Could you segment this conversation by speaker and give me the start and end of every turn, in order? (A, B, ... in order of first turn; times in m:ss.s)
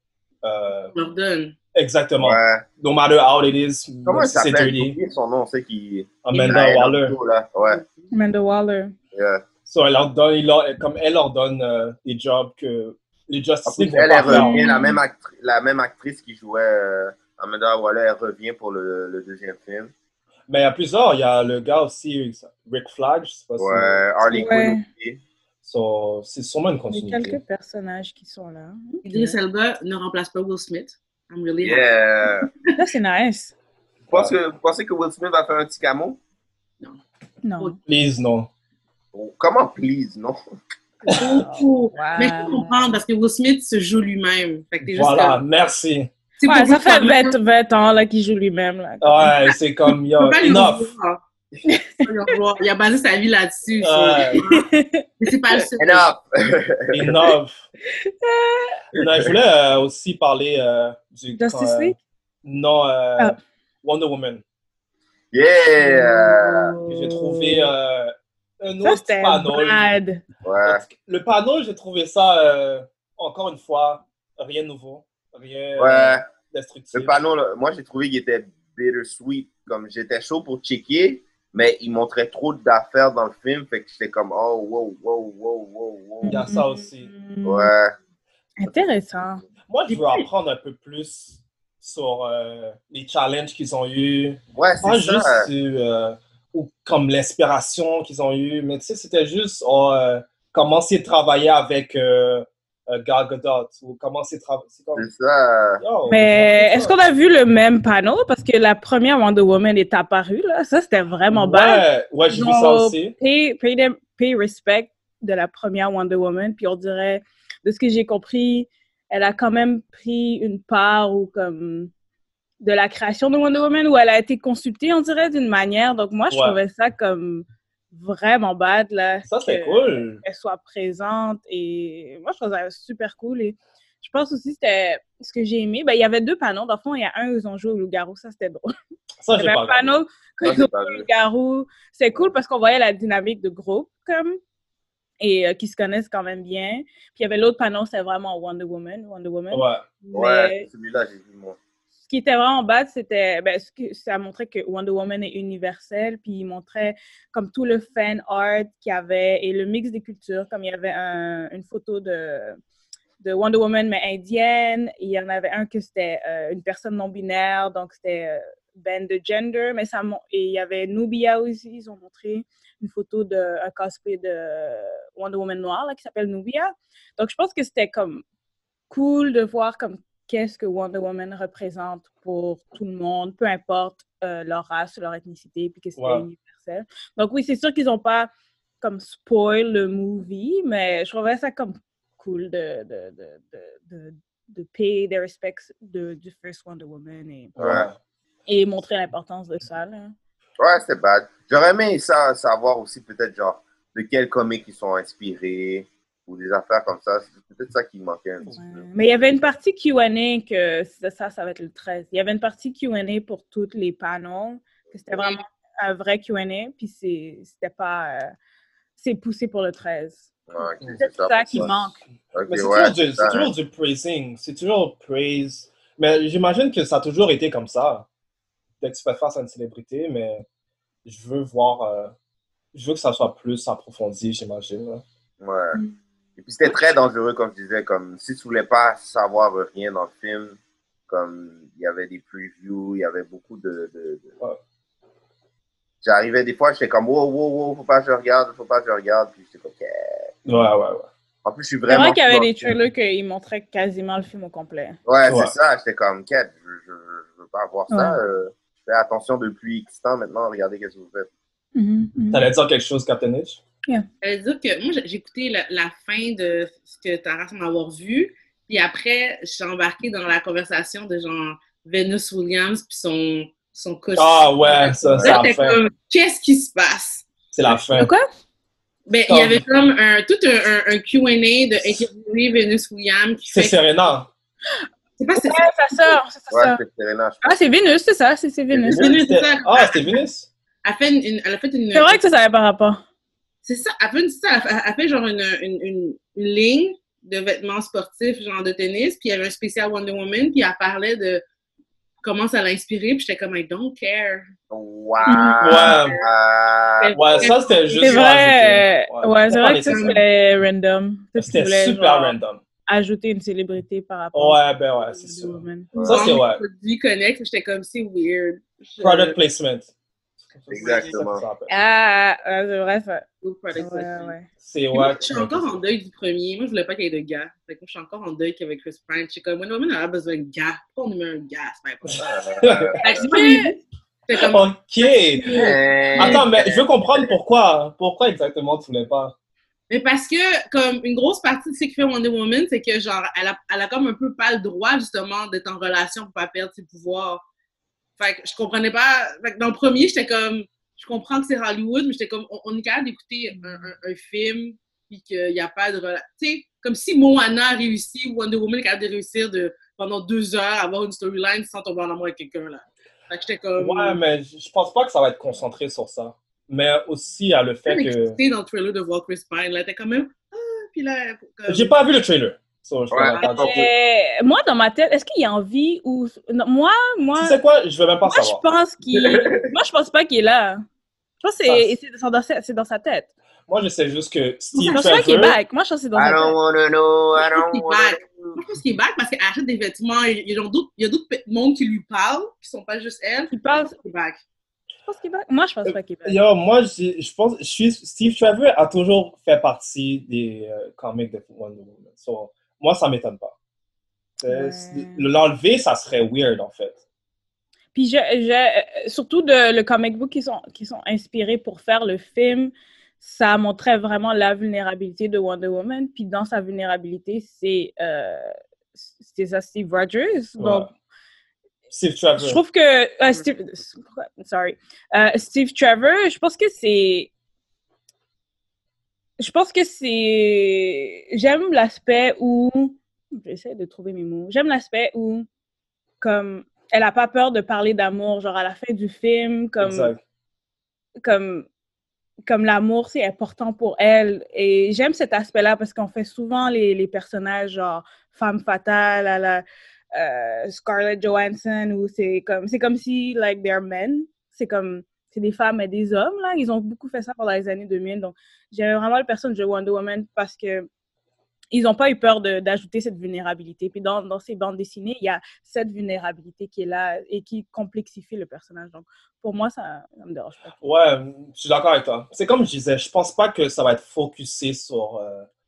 0:00.4-0:00.9 A
0:00.9-0:01.6 B
0:01.7-0:05.0 A
0:02.2-0:02.6 C
0:04.0-0:07.8 C
0:06.2-0:07.2 A
0:06.3-0:06.6 B
0:07.7-0:08.1 B
0:08.1-0:08.9 D
0:09.1-0:09.4 C
0:09.6-0:14.6 A
0:13.6-0:19.9 C
0:14.3-0:15.0 D
0:20.5-0:24.0 A
0:23.6-0:25.2 C
0:24.3-0:24.8 D
0:25.6-0:27.4 A
0:26.9-0:29.4 D
0:29.0-0:31.9 B
0:31.6-0:32.5 C
0:32.8-0:33.5 D
0:34.1-0:36.2 C
0:37.4-0:37.7 D
0:37.9-0:38.5 A
0:39.1-0:40.4 C
0:41.0-0:43.0 D
0:41.1-0:45.4 B
0:44.8-0:46.1 A
0:46.4-0:47.3 B
0:46.4-0:49.5 D
0:49.0-0:50.9 A
0:50.2-0:51.2 B
0:51.6-0:52.0 D
0:52.0-0:54.6 B
0:53.8-0:54.4 A
0:54.5-0:55.0 D
0:55.2-0:56.1 B
0:55.8-0:57.3 C
0:56.9-0:57.6 A
0:58.0-0:58.8 D
0:59.0-0:59.3 C
0:59.0-1:04.4 A
1:01.4-1:02.0 D
1:05.3-1:06.7 C
1:05.8-1:07.7 D
1:06.9-1:09.9 A
1:08.8-1:10.2 D
1:10.4-1:10.8 C
1:10.6-1:17.2 A
1:15.8-1:16.2 C
1:16.9-1:26.4 C
1:26.2-1:27.7 D
1:26.2-1:27.1 A
1:27.4-1:27.9 C
1:28.6-1:29.4 D
1:29.6-1:45.1 A
1:34.5-1:35.5 C
1:44.9-1:45.8 C
1:45.8-1:47.0 A
1:46.1-2:01.9 D
1:51.3-1:53.1 A
2:02.6-2:18.7 D
2:06.3-2:06.6 A
2:09.3-2:10.2 A
2:19.2-2:20.0 A
2:19.4-2:24.4 D
2:20.4-2:21.0 C
2:25.2-2:30.7 D
2:29.5-2:29.8 A
2:30.1-2:31.6 C
2:32.1-2:42.6 D
2:43.2-2:58.2 D
2:58.9-3:08.3 D
3:06.0-3:06.2 A
3:08.8-3:17.6 D
3:17.6-3:17.9 A
3:17.6-3:17.9 C
3:18.5-3:20.1 D
3:20.6-3:28.8 C
3:28.5-3:38.3 D
3:39.0-3:40.3 D
3:40.5-3:41.7 C
3:41.0-3:42.0 D
3:41.5-3:41.9 A
3:42.3-3:43.5 C
3:42.4-3:48.0 A
3:48.8-3:50.4 A
3:51.0-3:52.1 A
3:52.7-3:55.0 A
3:55.4-3:55.8 C
3:56.4-4:00.6 C
4:01.1-4:04.3 C
4:06.0-4:10.3 C
4:10.4-4:11.1 A
4:11.4-4:12.7 C
4:11.9-4:15.0 D
4:15.0-4:21.3 C
4:15.2-4:15.5 A
4:17.9-4:18.2 D
4:21.8-4:22.5 D
4:22.3-4:23.6 A
4:24.2-4:37.3 B
4:34.2-4:35.8 A
4:35.0-4:35.4 C
4:37.5-4:38.1 A
4:37.9-4:38.2 D
4:39.1-4:43.8 B
4:39.3-4:39.6 A
4:43.5-4:44.3 A
4:45.2-4:45.7 B
4:45.4-4:46.8 D
4:46.5-4:47.6 C
4:47.4-4:49.0 D
4:48.9-4:50.5 A
4:48.9-4:50.2 B
4:50.8-4:52.2 B
4:51.9-4:53.0 D
4:53.6-5:01.4 B
5:02.2-5:04.5 B
5:04.7-5:07.5 C
5:05.2-5:06.2 B
5:05.2-5:05.6 D
5:05.6-5:06.2 A
5:07.0-5:08.2 B
5:07.1-5:10.2 A
5:07.9-5:12.4 D
5:09.5-5:10.2 B
5:11.4-5:12.6 A
5:12.9-5:15.9 D
5:14.3-5:16.6 A
5:15.9-5:16.3 C
5:16.0-5:19.4 B
5:19.0-5:19.9 A
5:20.5-5:21.7 A
5:20.7-5:21.4 C
5:20.7-5:21.1 B
5:21.7-5:23.2 D
5:23.4-5:24.3 B
5:23.8-5:24.5 D
5:24.6-5:25.8 A
5:24.9-5:32.2 B
5:32.1-5:32.9 A
5:32.2-5:33.2 C
5:33.0-5:33.7 D
5:33.0-5:36.4 B
5:34.3-5:39.3 A
5:35.5-5:37.3 C
5:39.9-5:47.4 B
5:48.2-6:04.2 B
5:53.6-5:53.9 D
6:03.8-6:08.4 A
6:07.8-6:11.9 B
6:11.7-6:13.8 A
6:13.1-6:13.9 C
6:13.6-6:17.6 D
6:17.4-6:18.6 A
6:18.2-6:20.8 D
6:19.2-6:19.7 C
6:21.4-6:23.3 D
6:21.6-6:21.9 A
6:23.7-6:25.6 A
6:24.7-6:25.0 B
6:24.9-6:26.6 D
6:26.1-6:28.6 C
6:27.4-6:34.4 B
6:33.5-6:34.0 D
6:35.0-6:36.4 D
6:35.8-6:43.5 A
6:44.4-6:47.0 A
6:44.5-6:45.3 D
6:47.9-7:00.9 D
7:00.6-7:00.9 A
7:01.9-7:02.6 A
7:02.4-7:07.3 D
7:09.4-7:15.5 D
7:16.2-7:20.1 D
7:19.8-7:20.2 A
7:21.2-7:21.7 D
7:22.5-7:29.6 D
7:30.1-7:40.9 D
7:41.7-7:50.8 D
7:50.8-7:55.4 A